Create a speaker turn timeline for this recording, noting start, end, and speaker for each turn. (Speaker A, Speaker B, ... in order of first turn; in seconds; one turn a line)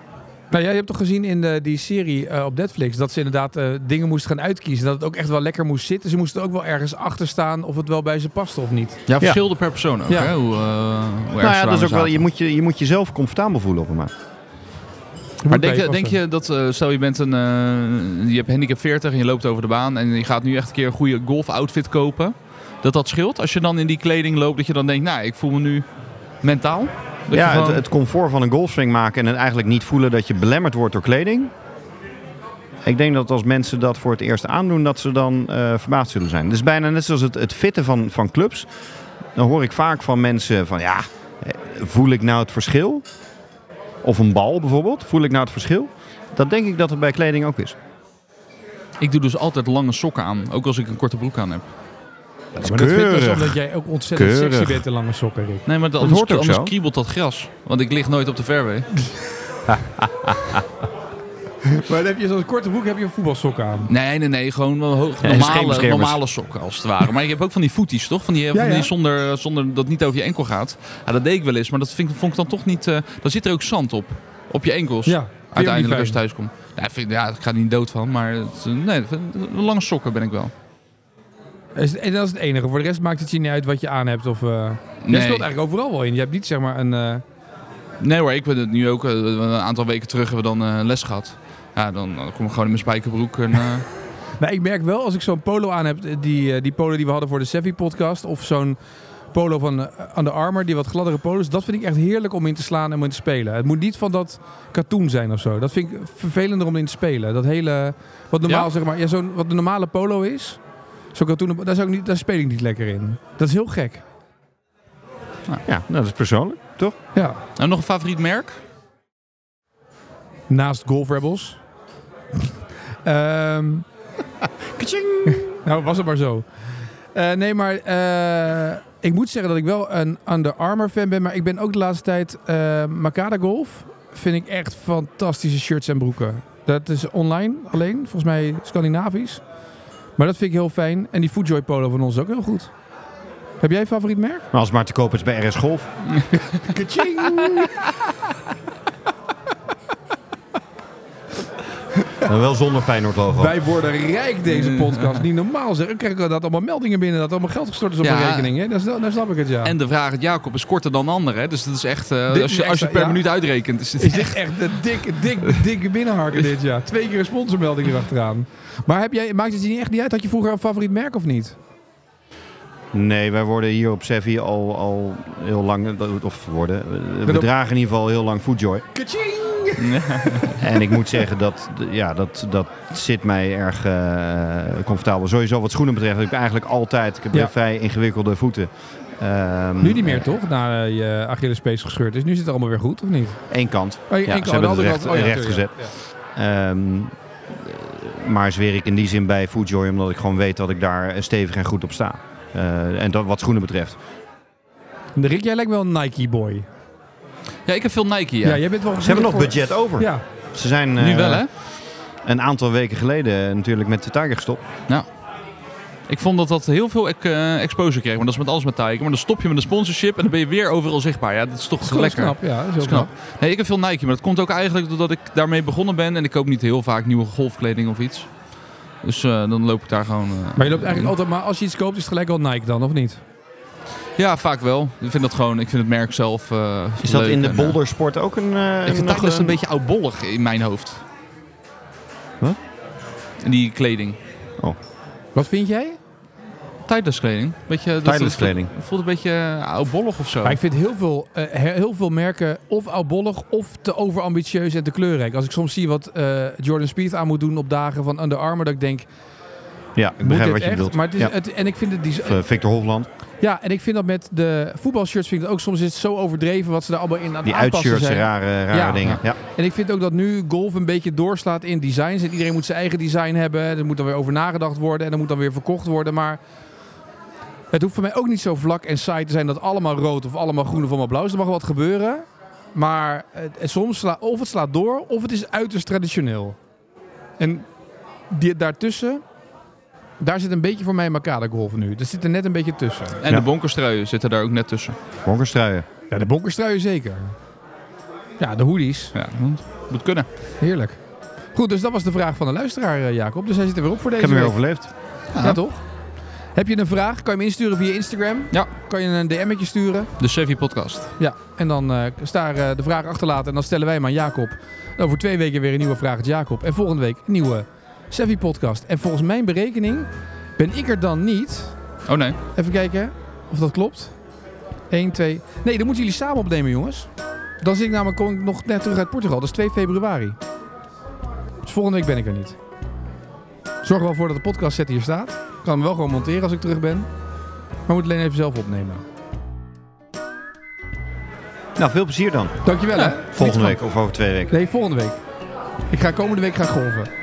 Speaker A: 0.5-9.0
Speaker B: 9.1-12.2
Speaker C: 11.4-14.1
Speaker A: 15.4-16.2
Speaker B: 15.5-25.9
Speaker B: 26.4-27.8
Speaker C: 27.3-31.5
Speaker C: 32.9-38.7
Speaker C: 39.4-43.0
Speaker C: 44.0-47.8
Speaker B: 49.0-51.7
Speaker C: 52.5-53.6
Speaker A: 52.6-55.6
Speaker C: 54.1-54.8
Speaker B: 55.7-58.9
Speaker C: 56.0-56.7
Speaker C: 59.7-60.6
Speaker A: 61.7-63.9
Speaker B: 63.9-80.5
Speaker C: 65.2-66.2
Speaker A: 68.5-68.9
Speaker A: 75.1-76.2
Speaker A: 81.8-87.2
Speaker B: 85.0-85.5
Speaker B: 88.0-93.9
Speaker A: 94.4-98.8
Speaker A: 99.3-110.6
Speaker A: 111.1-114.0
Speaker C: 115.7-117.0
Speaker A: 117.1-117.4
Speaker B: 117.6-118.6
Speaker A: 120.5-121.6
Speaker A: 123.0-123.9
Speaker C: 124.7-125.5
Speaker A: 125.3-126.5
Speaker A: 127.1-139.4
Speaker A: 140.2-142.7
Speaker A: 143.6-144.5
Speaker C: 144.5-145.9
Speaker A: 146.3-147.8
Speaker C: 152.2-153.6
Speaker A: 153.3-159.7
Speaker B: 154.4-155.2
Speaker B: 158.0-158.5
Speaker B: 159.6-164.8
Speaker A: 162.3-163.3
Speaker A: 164.0-171.6
Speaker C: 172.9-178.9
Speaker A: 178.9-181.0
Speaker B: 179.8-180.6
Speaker C: 180.6-190.3
Speaker A: 189.8-193.4
Speaker C: 193.5-204.0
Speaker A: 194.1-195.7
Speaker A: 205.2-206.7
Speaker B: 207.7-208.6
Speaker A: 208.4-210.2
Speaker C: 208.9-211.5
Speaker B: 211.0-211.5
Speaker C: 212.2-214.6
Speaker B: 216.1-228.3
Speaker A: 221.8-223.1
Speaker B: 229.0-231.1
Speaker A: 230.6-233.2
Speaker B: 234.2-237.8
Speaker C: 237.0-239.6
Speaker B: 238.8-241.0
Speaker B: 243.4-244.2
Speaker A: 245.3-246.0
Speaker B: 246.8-250.6
Speaker C: 248.0-248.7
Speaker A: 250.4-259.1
Speaker C: 260.0-261.3
Speaker A: 260.2-262.4
Speaker C: 262.2-263.1
Speaker A: 263.4-276.4
Speaker C: 267.4-269.4
Speaker A: 277.7-286.6
Speaker A: 287.4-287.7
Speaker A: 288.3-289.2
Speaker A: 290.2-293.2
Speaker B: 293.2-295.0
Speaker C: 295.2-295.9
Speaker A: 296.1-297.4
Speaker A: 298.4-299.1
Speaker B: 299.1-300.3
Speaker A: 300.6-301.0
Speaker A: 301.5-304.8
Speaker C: 304.2-304.9
Speaker B: 305.3-305.6
Speaker A: 305.4-305.9
Speaker A: 306.5-310.1
Speaker B: 310.2-311.1
Speaker A: 311.2-321.8
Speaker B: 322.1-322.4
Speaker A: 322.6-324.1
Speaker A: 324.9-327.1
Speaker A: 327.6-330.4
Speaker A: 331.6-332.6
Speaker A: 333.8-337.1
Speaker A: 337.9-339.0
Speaker C: 341.8-342.6
Speaker A: 342.6-343.8
Speaker B: 342.9-343.2
Speaker C: 343.3-344.5
Speaker A: 344.5-345.2
Speaker A: 345.9-347.1